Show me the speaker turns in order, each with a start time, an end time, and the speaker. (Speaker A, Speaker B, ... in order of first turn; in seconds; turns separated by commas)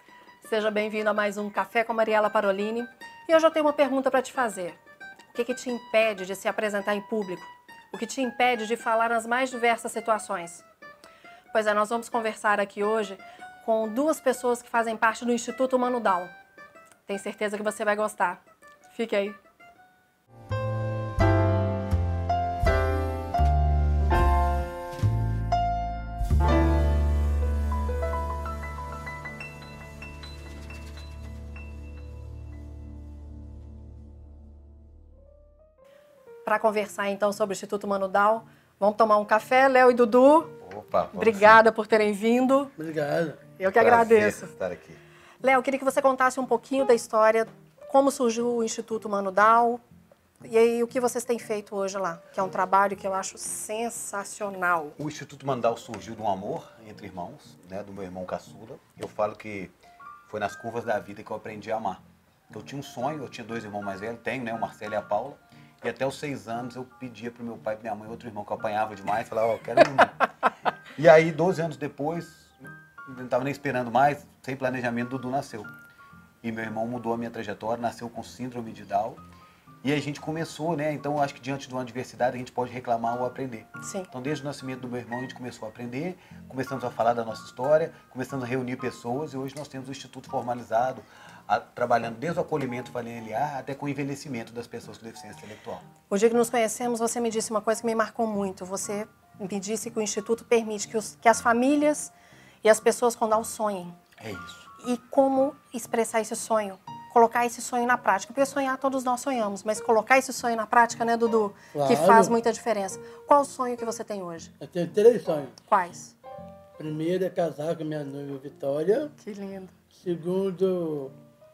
Speaker A: 0.4-4.8, Speaker A: 5.3-10.6, Speaker A: 11.5-16.3, Speaker A: 17.1-19.4, Speaker A: 36.5-40.5, Speaker B: 40.6-41.6, Speaker A: 41.1-42.7, Speaker C: 42.8-43.4, Speaker A: 43.6-44.5, Speaker B: 43.7-45.0, Speaker A: 45.4-49.8, Speaker A: 50.4-55.0, Speaker B: 55.0-59.7, Speaker B: 60.3-70.2, Speaker B: 71.0-72.5, Speaker B: 73.1-75.7, Speaker B: 76.4-79.2, Speaker B: 79.8-95.8, Speaker A: 83.8-84.1, Speaker A: 96.1-104.0, Speaker B: 104.2-104.7, Speaker A: 104.8-114.5, Speaker C: 111.7-112.4, Speaker C: 114.6-115.5, Speaker A: 115.7-116.1, Speaker C: 116.8-119.1, Speaker A: 119.2-119.7, Speaker C: 119.9-121.1